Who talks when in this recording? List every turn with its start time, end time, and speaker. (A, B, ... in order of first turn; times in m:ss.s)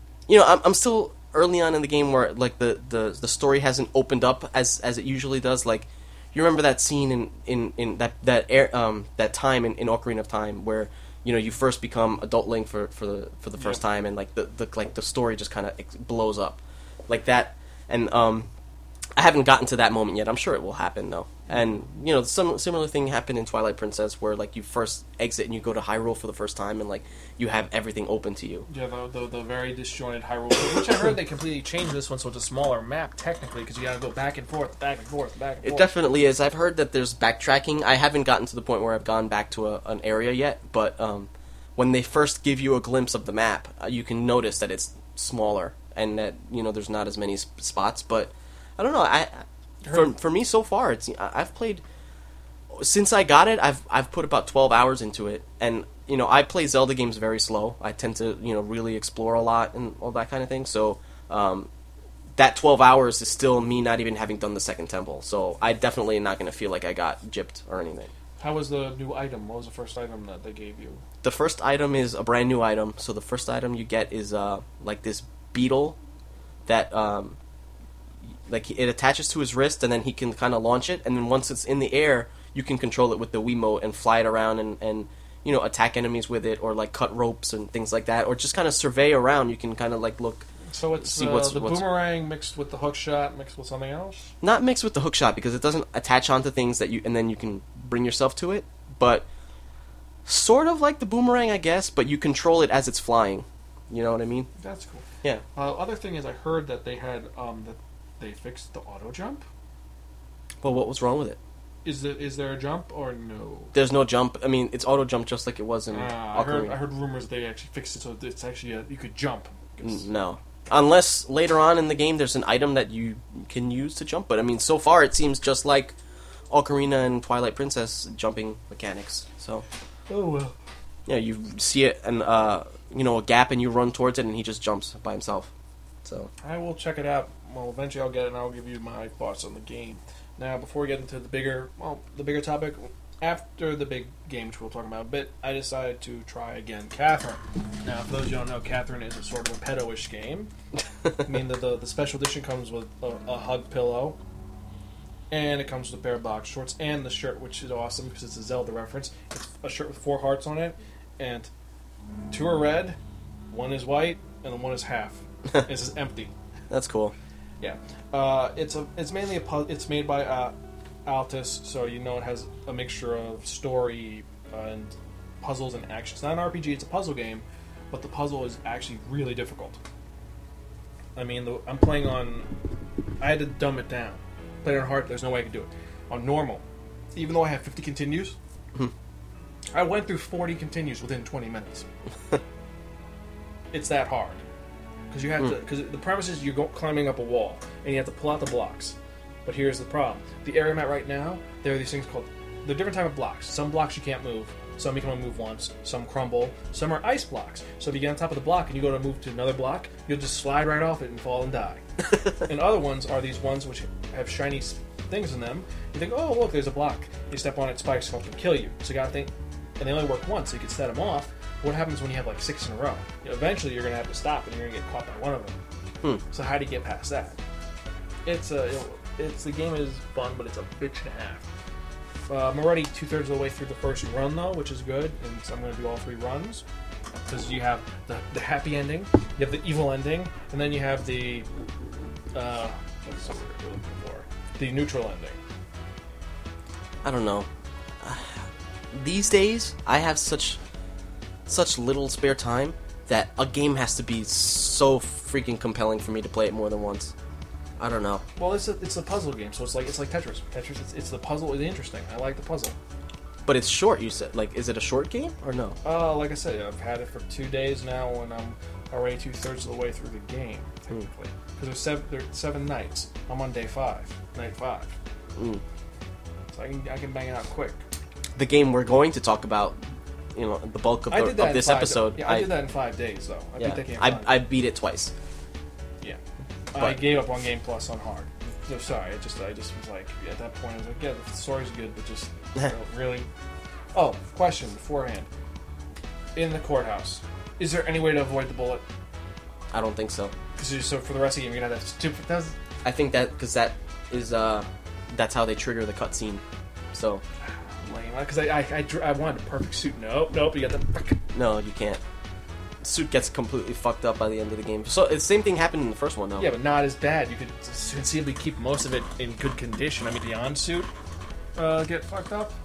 0:00.3-0:18.5 A
0:19.2-0:28.6 A
0:28.7-0:35.9 B
0:35.6-0:51.8 A
0:49.8-0:50.1 B
0:52.7-1:01.7 A
1:02.4-1:08.1 A
1:08.4-1:11.0 B
1:11.2-1:16.0 A
1:16.6-1:17.4 A
1:18.5-1:30.5 A
1:30.7-1:34.3 B
1:31.0-1:31.8 A
1:34.4-1:39.3 A
1:40.2-1:44.5 A
1:44.6-1:49.4 B
1:50.6-1:51.4 A
1:51.8-1:53.7 B
1:53.7-1:56.8 A
1:55.9-2:00.1 B
1:59.8-2:05.9 A
2:06.5-2:09.6 A
2:10.1-2:10.6 B
2:11.0-2:15.5 A
2:16.0-2:16.3 A
2:16.4-2:30.5 B
2:31.2-2:34.2 B
2:35.3-2:41.5 B
2:42.3-2:43.0 B
2:43.5-2:46.3 B
2:46.7-2:47.1 A
2:47.6-2:50.5 B
2:51.0-2:59.8 B
3:01.2-3:02.5 B
3:03.2-3:06.6 B
3:07.1-3:08.4 B
3:09.7-3:11.8 B
3:13.7-3:14.4 B
3:15.1-3:45.6 B
3:46.3-3:47.4 B
3:48.2-3:51.5 B
3:52.3-3:56.6 B
3:57.3-4:01.5 B
4:02.3-4:05.4 B
4:07.0-4:07.5 A
4:08.0-4:10.6 A
4:11.4-4:17.1 A
4:17.8-4:18.2 A
4:18.4-4:22.8 B
4:23.4-4:25.8 A
4:25.8-4:35.0 B
4:35.4-4:35.6 A
4:36.5-4:37.8 B
4:38.4-4:39.8 A
4:40.3-4:42.5 A
4:41.1-4:44.3 B
4:43.6-4:45.1 A
4:46.7-4:53.3 B
4:53.9-4:55.3 B
4:56.4-4:58.8 B
4:59.7-5:00.3 A
5:00.6-5:02.6 B
5:02.8-5:07.2 A
5:07.4-5:11.2 B
5:11.3-5:12.0 A
5:12.8-5:16.5 A
5:16.4-5:20.9 B
5:21.6-5:22.5 B